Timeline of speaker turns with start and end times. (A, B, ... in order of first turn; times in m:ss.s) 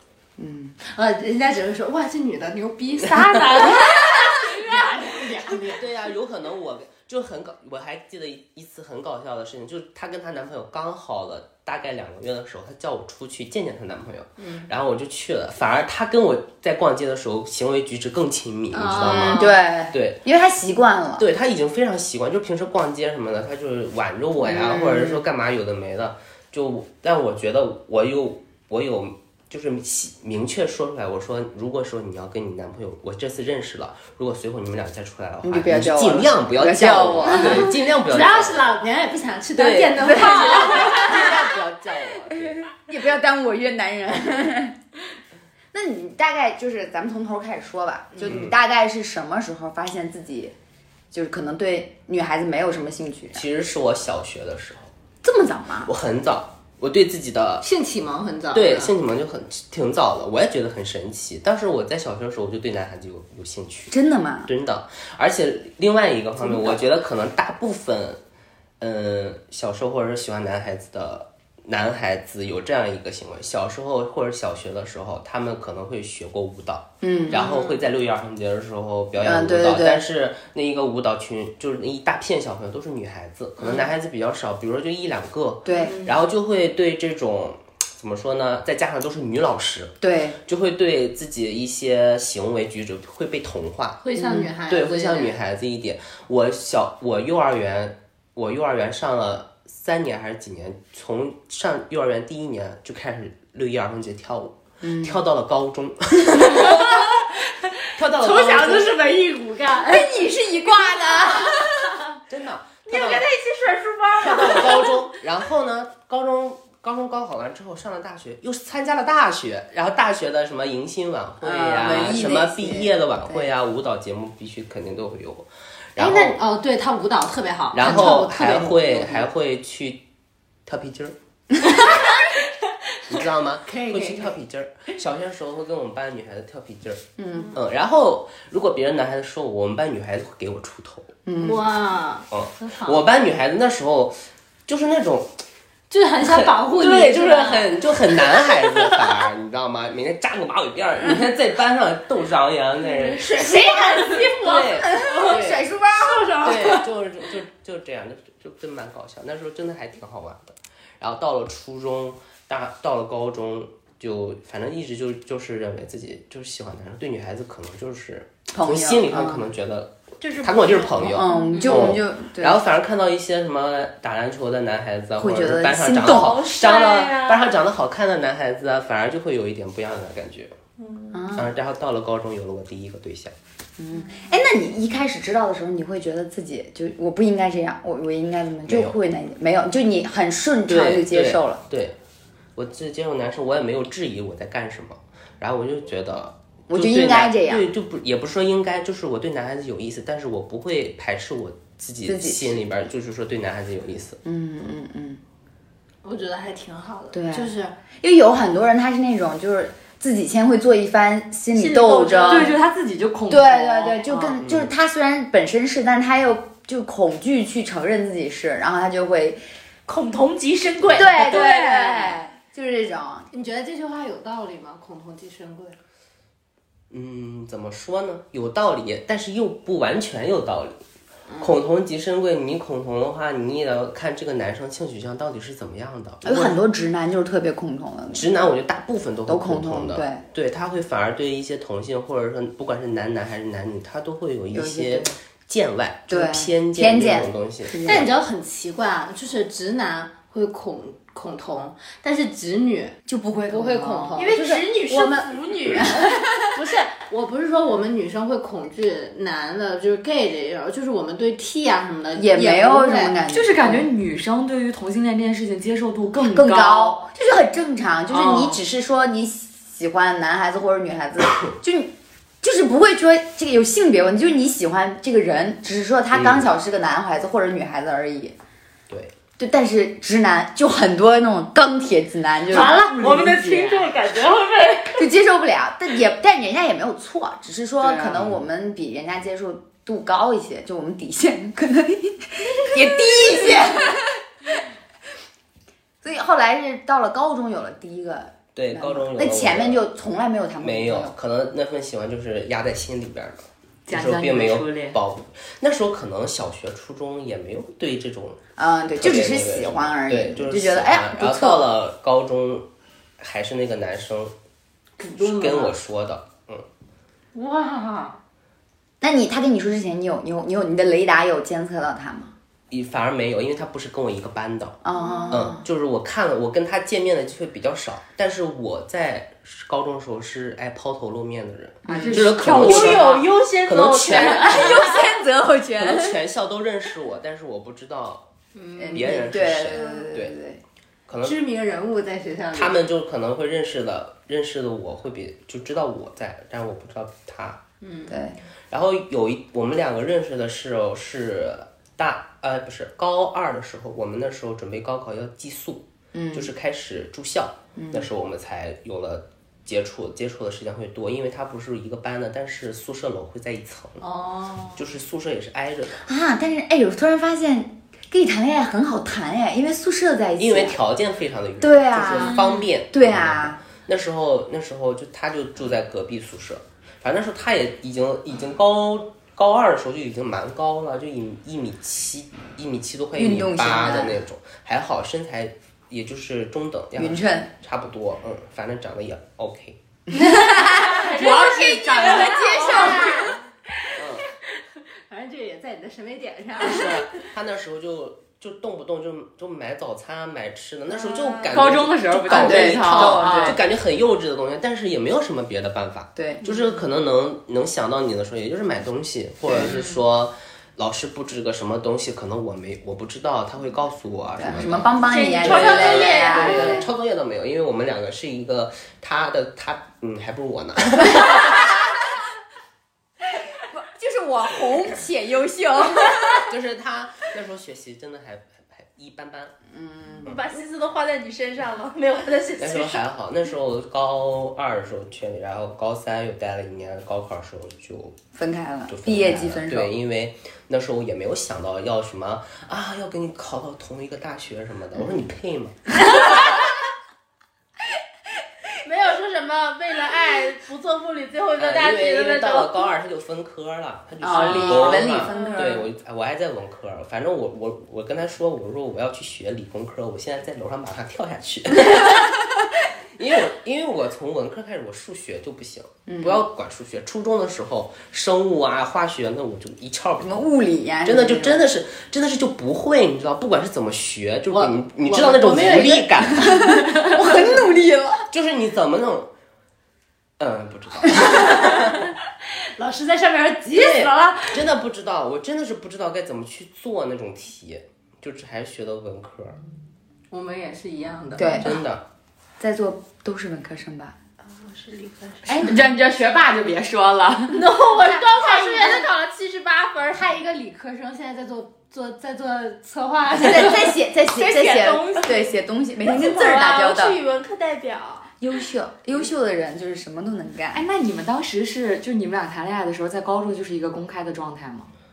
0:00.4-0:00.8 A
0:00.8-0:05.8 B
0:05.8-0:20.2 C
0:14.4-0:14.7 B
0:18.7-0:19.5 B
0:19.0-0:21.2 A
0:21.2-0:38.7 C
0:24.4-0:25.2 A
0:35.4-0:37.7 A
0:37.3-0:41.3 B
0:39.6-0:42.7 C
0:40.0-0:41.4 A
0:42.4-0:44.8 A
0:45.7-0:50.5 A
0:48.2-0:48.6 C
0:51.1-0:53.4 A
0:53.4-0:54.9 C
0:55.2-0:55.9 A
0:55.8-0:57.6 C
0:57.6-0:58.9 B
0:58.5-1:08.2 C
1:03.9-1:04.5 A
1:06.4-1:06.8 A
1:08.8-1:29.9 C
1:17.0-1:17.7 A
1:19.2-1:20.0 A
1:25.6-1:26.0 A
1:25.8-1:26.1 B
1:30.0-1:30.4 A
1:30.4-1:34.0 C
1:34.0-1:35.4 B
1:34.2-1:34.5 A
1:34.7-1:47.2 C
1:44.8-1:45.2 A
1:46.5-1:47.1 B
1:47.9-1:49.0 C
1:48.2-1:50.1 B
1:49.9-1:51.8 A
1:52.3-1:53.3 C
1:52.9-1:54.9 D
1:54.2-2:06.4 C
2:01.4-2:03.5 A
2:06.0-2:09.2 B
2:07.7-2:10.0 C
2:10.6-2:11.2 C
2:13.1-2:17.0 C
2:13.6-2:14.3 B
2:17.2-2:17.5 A
2:17.5-2:21.1 C
2:21.2-2:21.6 A
2:21.4-2:23.0 B
2:22.3-2:25.4 C
2:25.9-2:28.5 B
2:26.2-2:35.6 C
2:33.1-2:36.8 B
2:34.8-2:36.4 A
2:36.4-3:00.5 C
2:48.5-2:49.5 A
2:50.2-2:51.9 D
2:51.0-2:52.6 A
2:55.2-2:56.5 A
2:56.3-2:57.5 D
3:00.8-3:01.2 D
3:01.1-3:01.5 A
3:01.3-3:03.3 C
3:03.8-3:11.6 A
3:08.7-3:09.0 C
3:10.7-3:12.0 C
3:12.6-3:24.2 C
3:16.7-3:17.7 A
3:22.0-3:22.6 A
3:24.2-3:25.2 A
3:26.0-3:27.8 B
3:27.1-3:32.6 A
3:31.6-3:32.5 D
3:32.0-3:32.4 B
3:32.3-3:34.4 E
3:33.3-3:39.4 A
3:34.4-3:34.7 C
3:39.9-3:42.1 D
3:40.9-3:43.3 A
3:41.2-3:41.6 B
3:43.3-3:45.8 B
3:46.9-3:50.8 C
3:51.3-3:51.6 B
3:51.4-3:56.6 C
3:56.2-3:58.4 A
3:58.1-4:08.1 C
3:59.3-4:00.2 A
4:04.5-4:05.1 A
4:06.1-4:08.0 A
4:07.8-4:13.0 B
4:13.1-4:16.4 A
4:13.5-4:14.6 B
4:14.2-4:16.2 D
4:16.5-4:23.1 B
4:22.1-4:23.9 A
4:23.2-4:27.0 E
4:26.2-4:38.4 A
4:28.2-4:28.5 B
4:36.1-4:36.5 C
4:39.4-4:42.8 A
4:42.5-4:45.0 B
4:42.5-4:43.9 E
4:45.0-4:54.2 A
4:47.9-4:48.1 E
4:48.1-4:48.4 C
4:56.0-5:01.1 A
4:58.5-4:59.8 C
5:00.6-5:08.4 C
5:03.9-5:05.0 E
5:08.6-5:11.7 A
5:08.9-5:12.6 C
5:13.2-5:14.3 C
5:15.0-5:15.7 B
5:15.2-5:16.6 C
5:17.3-5:18.2 B
5:19.0-5:22.3 A
5:22.7-5:33.1 C
5:24.8-5:25.6 A
5:25.0-5:25.3 B
5:31.9-5:32.5 A
5:31.9-5:33.3 E
5:32.6-5:35.0 D
5:33.6-5:34.9 C
5:34.1-5:36.2 A
5:35.8-5:38.2 C
5:38.5-5:39.3 B
5:38.8-5:40.6 A
5:38.9-5:40.4 C
5:41.1-5:41.4 C
5:41.2-5:42.8 B
5:42.5-5:47.6 C
5:47.8-5:48.2 B
5:48.1-5:48.4 A
5:48.7-6:04.0 C
5:56.1-5:56.5 A
5:57.8-5:58.1 A
6:04.0-6:04.8 B
6:04.8-6:06.0 C
6:06.0-6:10.8 A
6:10.4-6:29.8 C
6:11.6-6:13.6 A
6:12.2-6:12.6 B
6:23.2-6:24.2 A
6:27.0-6:27.5 A
6:30.1-6:33.4 A
6:31.0-6:32.5 E
6:32.0-6:32.8 B
6:32.2-6:33.3 D
6:34.0-6:34.3 C
6:35.1-6:37.0 B
6:36.6-7:02.0 C
6:41.5-6:43.6 E
6:42.3-6:43.6 A
6:46.2-6:46.4 A
6:49.5-6:49.8 A
6:54.4-6:56.9 A
6:55.0-6:56.9 D
7:03.4-7:06.5 A
7:06.4-7:09.5 C
7:09.7-7:10.3 A
7:10.2-7:13.0 D
7:12.6-7:18.2 C
7:18.4-7:19.9 A
7:18.9-7:26.6 C
7:28.8-7:32.9 D
7:31.6-7:42.6 C
7:34.2-7:35.8 A
7:34.3-7:35.8 D
7:43.2-7:50.5 C
7:46.1-7:46.4 A
7:50.2-7:51.7 A
7:51.0-7:57.5 C
7:54.5-7:56.4 B
7:56.3-7:58.3 A
7:58.3-7:59.3 C
8:00.4-8:02.1 C
8:01.2-8:01.9 B
8:02.8-8:04.6 B
8:03.7-8:09.6 C
8:10.3-8:11.6 B
8:11.4-8:11.8 A
8:11.6-8:12.0 C
8:12.6-8:14.2 A
8:14.4-8:15.7 D
8:15.5-8:17.7 E
8:17.5-8:20.2 D
8:18.0-8:19.1 B
8:20.1-8:24.0 B
8:23.3-8:27.2 A
8:24.3-8:25.5 D
8:26.0-8:28.3 D
8:28.4-8:30.8 A
8:30.7-8:34.9 E